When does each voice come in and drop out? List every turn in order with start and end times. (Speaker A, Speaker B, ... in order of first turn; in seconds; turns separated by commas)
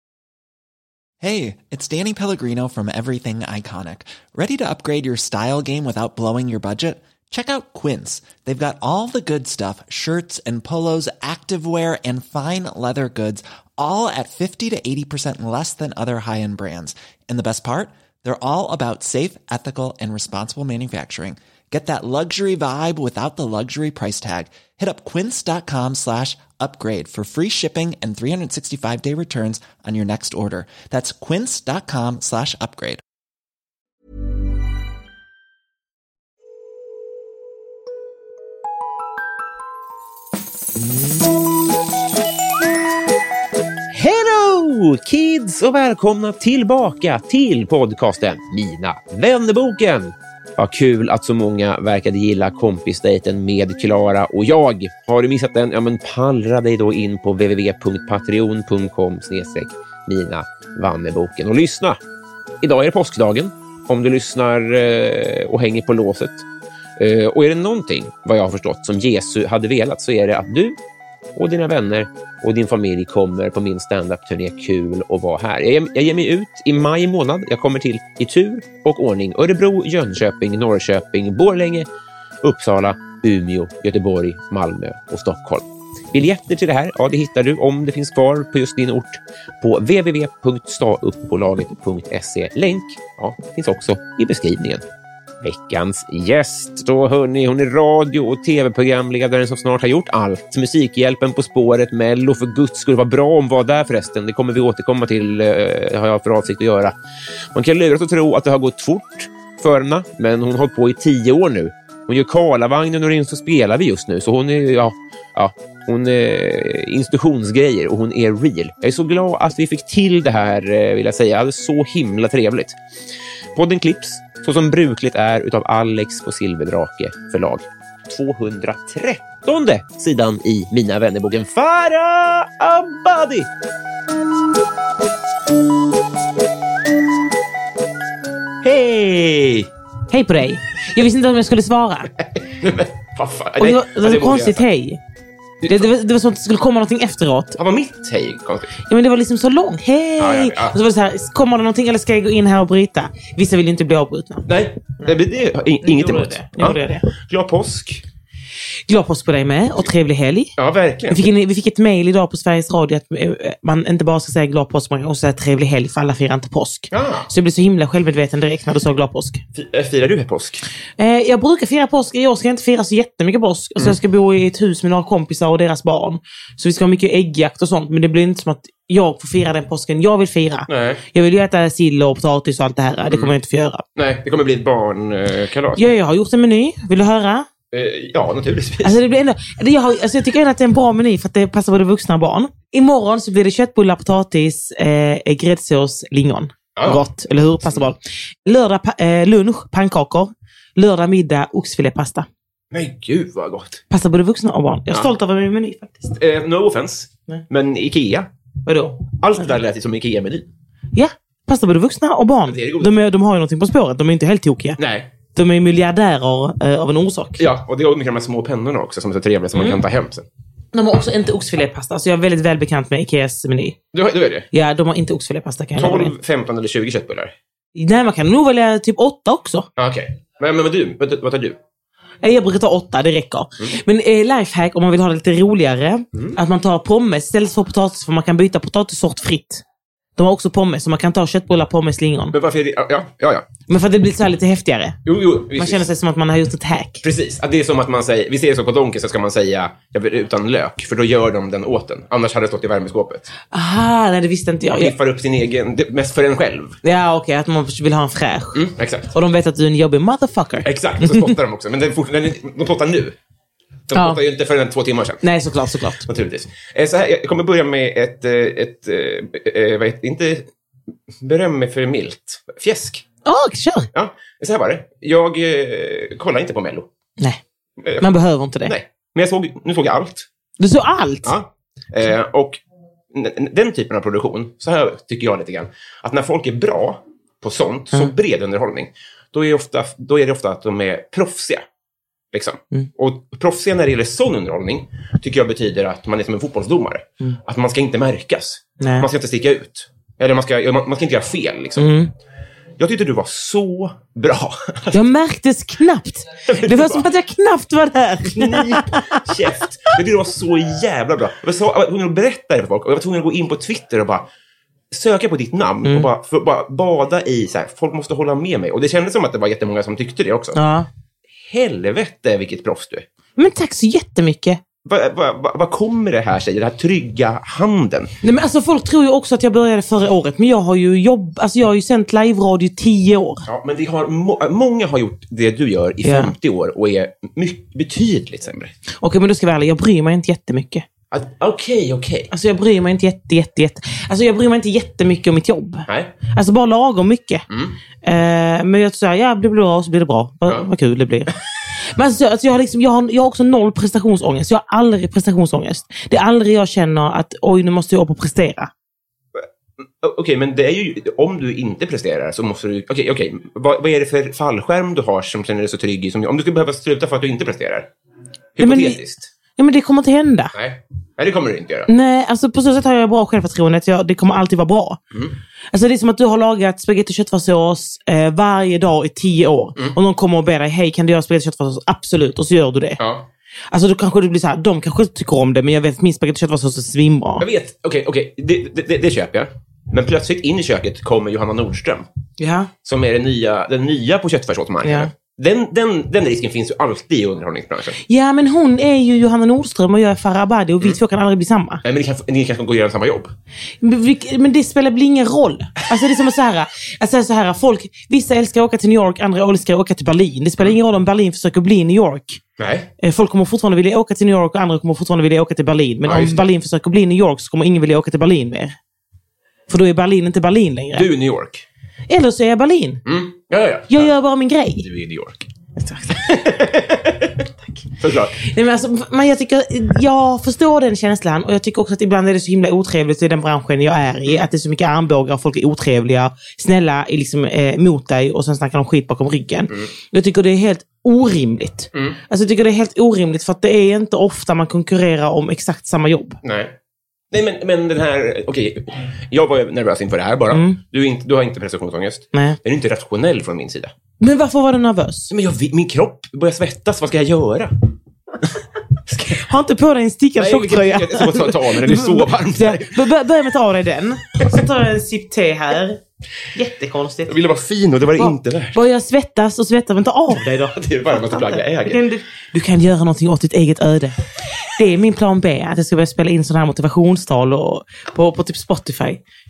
Speaker A: 1.2-33.0, Speaker B: 43.9-62.0, Speaker B: 62.6-66.4, Speaker B: 67.0-70.8, Speaker B: 71.3-81.9, Speaker B: 82.4-94.8, Speaker B: 95.4-106.9, Speaker B: 107.5-122.8, Speaker B: 123.5-133.5, Speaker B: 138.6-139.7, Speaker C: 140.1-142.1, Speaker B: 142.6-144.6, Speaker C: 143.6-145.0, Speaker B: 145.6-145.9, Speaker C: 145.7-147.6, Speaker B: 147.6-148.8, Speaker C: 148.9-154.5, Speaker B: 150.2-150.8, Speaker B: 154.5-158.0, Speaker C: 155.8-157.1, Speaker C: 158.9-160.5, Speaker B: 160.6-161.2, Speaker C: 161.1-169.4, Speaker B: 166.9-167.3, Speaker B: 169.5-170.6, Speaker C: 171.0-183.8, Speaker B: 180.7-181.0, Speaker B: 183.9-186.0, Speaker C: 185.8-187.5, Speaker B: 187.7-189.0, Speaker C: 188.8-202.3, Speaker B: 196.8-197.0, Speaker B: 202.7-203.8, Speaker C: 203.9-206.1, Speaker B: 206.1-208.3, Speaker C: 208.7-209.0, Speaker B: 209.1-210.5, Speaker C: 210.9-214.8, Speaker B: 212.5-212.9, Speaker B: 214.8-215.1, Speaker C: 215.3-217.4, Speaker B: 217.4-220.3, Speaker C: 220.7-223.8, Speaker B: 223.9-224.5, Speaker C: 224.5-226.1, Speaker B: 225.8-227.3, Speaker C: 227.7-229.7, Speaker B: 229.8-231.6, Speaker C: 232.2-239.6, Speaker C: 240.2-242.3, Speaker B: 242.3-243.5, Speaker C: 243.7-245.0, Speaker B: 245.1-245.8, Speaker C: 245.5-247.0, Speaker B: 247.0-253.3, Speaker C: 253.5-254.9, Speaker B: 254.7-256.8, Speaker C: 256.8-258.6, Speaker B: 258.5-259.1, Speaker C: 259.1-261.3, Speaker B: 260.6-263.1, Speaker B: 263.9-265.2, Speaker C: 263.9-264.2, Speaker C: 265.2-266.0, Speaker B: 266.0-270.5, Speaker B: 271.2-273.0, Speaker C: 273.2-273.9, Speaker B: 273.9-276.9, Speaker B: 277.8-278.1, Speaker C: 278.0-278.7, Speaker B: 278.6-280.3, Speaker C: 280.6-281.3, Speaker B: 281.2-282.6, Speaker B: 283.1-291.6, Speaker B: 292.3-301.9, Speaker C: 298.8-299.1, Speaker C: 301.8-302.1, Speaker B: 302.8-304.9, Speaker C: 304.9-309.2, Speaker B: 306.5-307.1, Speaker B: 308.2-314.2, Speaker B: 314.9-320.6, Speaker C: 320.6-320.9, Speaker B: 321.5-323.1, Speaker C: 323.4-324.6, Speaker B: 324.8-328.1, Speaker C: 328.2-333.4, Speaker B: 333.4-338.7, Speaker C: 336.0-336.3, Speaker C: 339.0-340.8, Speaker B: 341.1-342.3, Speaker C: 342.3-347.4, Speaker B: 345.9-346.1, Speaker B: 347.5-347.8, Speaker C: 348.0-351.3, Speaker C: 351.9-358.7, Speaker B: 359.4-367.9, Speaker B: 368.6-369.3, Speaker C: 368.6-369.0, Speaker C: 369.6-370.5, Speaker B: 370.5-371.9, Speaker C: 371.9-375.0, Speaker C: 375.7-383.0, Speaker B: 383.0-383.3, Speaker C: 383.7-387.4, Speaker B: 387.4-392.1, Speaker C: 392.4-392.7, Speaker B: 392.8-398.0, Speaker C: 394.8-395.1, Speaker C: 398.1-401.8, Speaker B: 401.8-403.3, Speaker C: 403.8-412.4, Speaker B: 412.6-412.9, Speaker C: 413.0-418.8, Speaker B: 416.0-416.4, Speaker C: 419.7-421.1, Speaker B: 420.9-421.6, Speaker C: 422.1-423.0, Speaker B: 423.1-424.1, Speaker C: 423.9-424.8, Speaker B: 424.8-425.5, Speaker C: 425.8-426.4, Speaker B: 426.1-427.4, Speaker B: 428.0-428.4, Speaker C: 428.4-446.4, Speaker B: 441.9-442.2, Speaker B: 446.4-446.7, Speaker B: 447.3-453.9, Speaker C: 450.5-450.8, Speaker C: 454.2-455.3, Speaker B: 455.3-457.8, Speaker B: 459.1-459.4, Speaker C: 459.4-466.0, Speaker B: 460.4-463.0, Speaker C: 466.5-467.3, Speaker B: 467.3-468.8, Speaker C: 468.2-479.2, Speaker B: 470.7-472.1